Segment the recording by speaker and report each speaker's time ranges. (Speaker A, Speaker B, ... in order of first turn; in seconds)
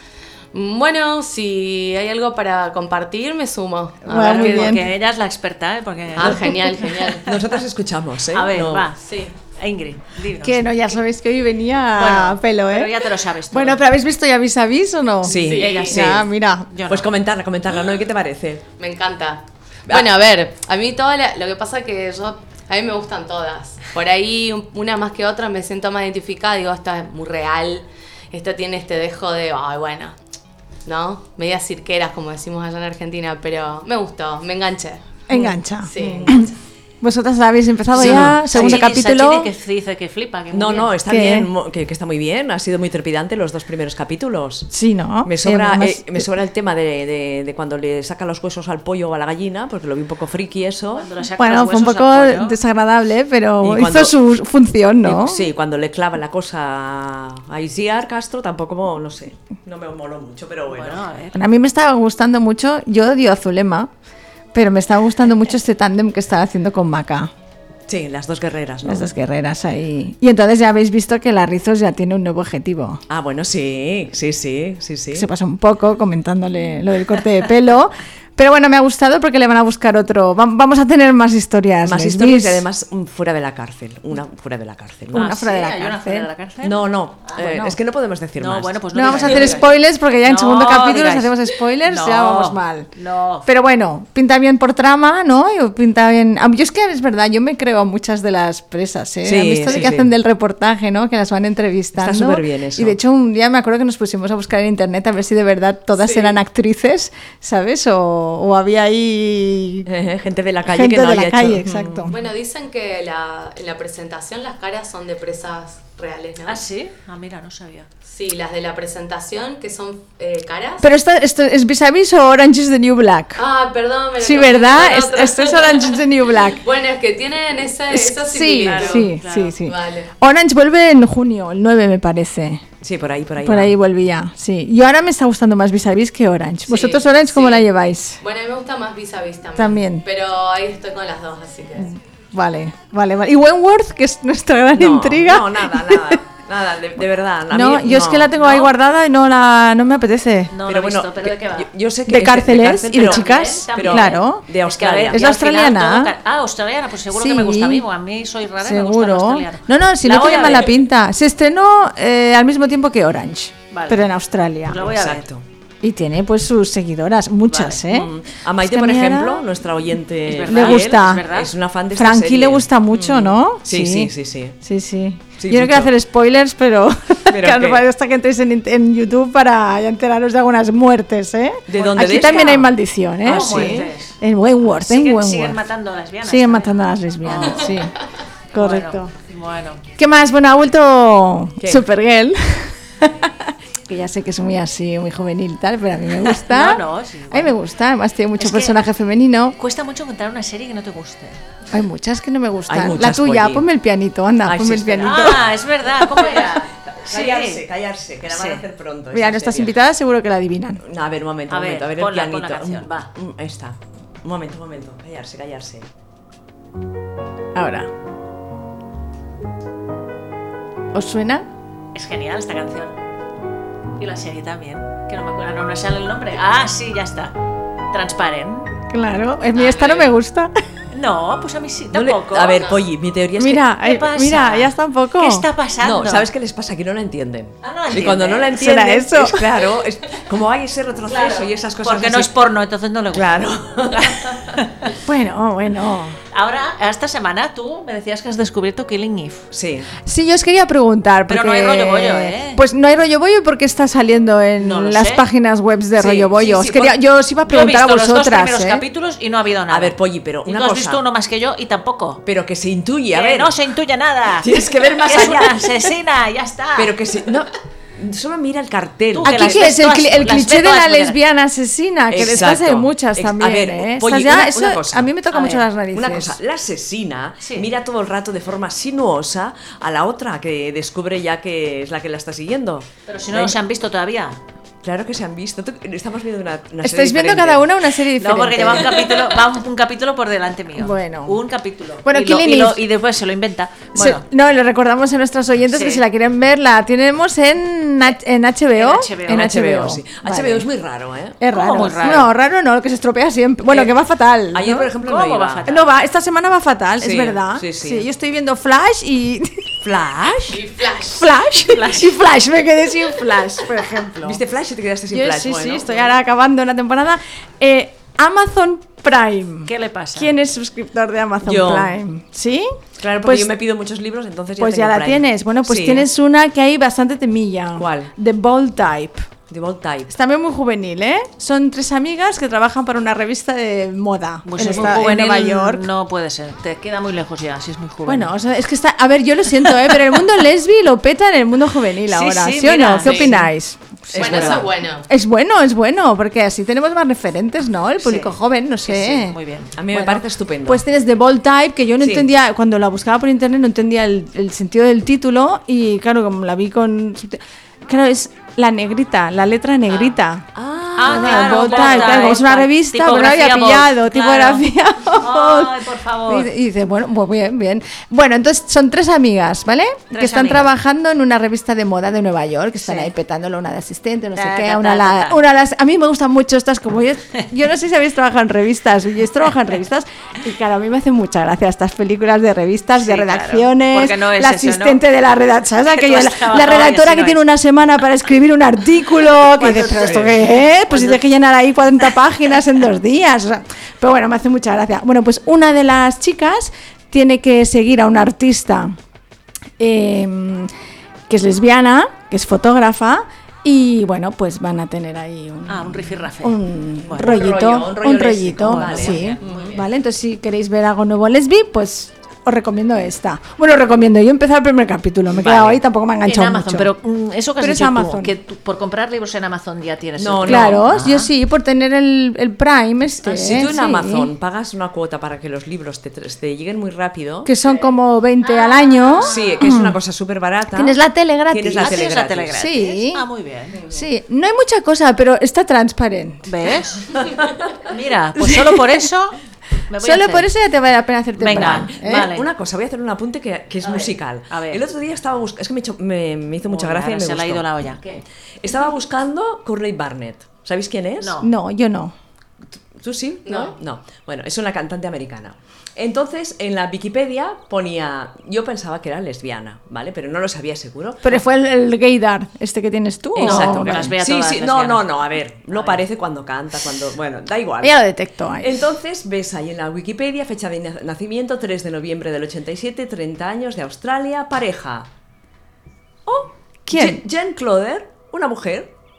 Speaker A: 0.5-4.8, 6.1-7.3, 9.0-9.3, 15.3-15.9, 18.8-30.2, 30.9-35.1, 35.8-36.5, 106.0-106.4, 112.1-116.6, 118.0-120.8, 123.4-126.0, 126.6-129.1, 129.6-130.1, 136.7-137.7, 138.2-141.9, 310.5-311.3, 344.1-345.1, 453.4-453.8
Speaker B: 4.1-4.9, 10.4-16.7, 35.3-36.5, 37.0-39.5, 41.1-41.5, 44.7-46.3, 51.4-55.5, 61.3-63.9, 64.5-67.3, 68.8-73.0, 75.1-82.6, 85.1-86.3, 87.4-87.7, 88.9-92.9, 93.4-109.9, 110.7-112.1, 120.8-123.4, 124.2-126.6, 127.9-132.6, 133.4-138.2, 139.6-140.0, 141.8-146.2, 147.5-150.5, 152.1-154.4, 155.1-156.1, 157.1-157.8, 158.6-164.8, 165.8-169.4, 170.5-171.2, 171.9-185.6, 186.2-187.9, 188.5-189.1, 190.0-199.6, 201.7-205.4, 209.1-210.8, 217.6-217.9, 220.9-221.4, 228.9-230.5, 233.4-235.5, 238.5-239.5, 245.0-246.2, 250.1-258.8, 269.2-276.4, 286.8-289.0, 290.8-291.4, 292.1-292.8, 293.9-300.6, 301.4-304.9, 305.7-309.7, 311.2-314.4, 315.1-323.5, 324.6-329.2, 330.1-335.8, 338.1-349.4, 349.9-360.4, 361.1-398.9, 399.8-400.7, 401.3-416.9, 417.6-418.3, 420.5-424.3, 427.4-429.9, 430.7-432.0, 432.5-433.2, 433.9-436.5, 438.4-438.8, 440.0-442.3, 451.4-452.1, 461.2-464.1, 467.8-468.8, 476.9-477.2
Speaker C: 4.1-7.2, 8.3-10.6, 11.9-13.8, 15.4-17.1, 37.9-40.9, 50.9-52.6, 60.7-61.4, 85.1-87.5, 88.4-89.7, 90.2-93.5, 116.4-117.9, 128.9-129.6, 148.4-148.7, 150.5-151.7, 153.0-160.8, 163.7-164.1, 164.7-165.2, 167.5-167.8, 170.3-171.5, 181.7-182.7, 183.2-184.2, 184.8-187.8, 188.5-189.8, 196.3-197.5, 198.4-198.8, 199.6-201.4, 205.0-207.6, 208.3-208.6, 211.5-213.1, 221.9-223.0, 224.0-227.4, 227.9-228.8, 229.6-230.1, 230.9-232.7, 233.8-236.3, 237.6-238.6, 241.1-243.4, 243.9-244.9, 246.3-249.5, 251.3-252.6, 254.6-255.2, 256.0-256.9, 257.4-262.2, 263.1-266.9, 269.1-271.2, 275.3-275.6, 277.4-277.7, 283.1-284.4, 288.2-294.2, 295.7-296.0, 298.7-299.5, 301.5-302.3, 305.0-305.9, 311.6-312.1, 319.6-320.3, 334.5-338.3, 342.1-343.5, 348.0-348.3, 348.8-349.8, 361.0-364.6, 365.2-366.5, 370.1-370.7, 372.8-373.1, 374.3-375.4, 383.0-385.0, 385.9-387.4, 389.6-391.2, 405.7-407.4, 408.6-409.8, 415.3-421.3, 428.4-429.6, 431.8-433.8, 436.4-437.1, 437.8-440.5, 441.4-442.5, 443.8-444.8, 446.7-448.2, 451.2-451.5, 463.4-465.2, 465.7-466.0
Speaker D: 7.2-8.9, 15.2-16.3, 16.9-18.6, 37.9-38.9, 40.5-44.7, 45.2-51.1, 53.6-54.1, 55.0-61.0, 67.9-69.1, 73.1-75.3, 81.8-85.3, 86.6-89.5, 99.2-100.1, 101.9-103.0, 109.9-112.1, 132.8-133.7, 144.7-148.3, 150.7-155.3, 164.7-165.4, 167.8-174.6, 175.4-175.9, 177.3-177.8, 181.7-182.7, 183.2-183.9, 191.6-191.8, 202.7-203.6, 204.4-205.4, 205.9-209.8, 210.8-215.9, 231.9-233.6, 235.8-242.3, 243.1-244.6, 249.5-249.9, 259.7-261.0, 262.2-263.6, 264.4-265.9, 266.8-269.7, 272.1-275.1, 275.9-283.6, 284.8-287.6, 299.3-301.4, 304.5-305.6, 307.0-308.1, 309.8-310.6, 314.2-316.1, 321.4-322.0, 323.0-326.1, 327.8-328.1, 329.5-330.1, 344.1-344.6, 349.8-350.8, 352.0-352.3, 360.6-362.4, 389.6-390.4, 407.1-409.7, 420.2-420.8, 423.2-427.5, 429.3-431.0, 431.5-432.6, 433.7-434.1, 437.1-437.8, 441.6-447.8, 448.6-451.4, 452.9-461.4, 463.4-467.9, 468.6-475.1, 476.2-478.9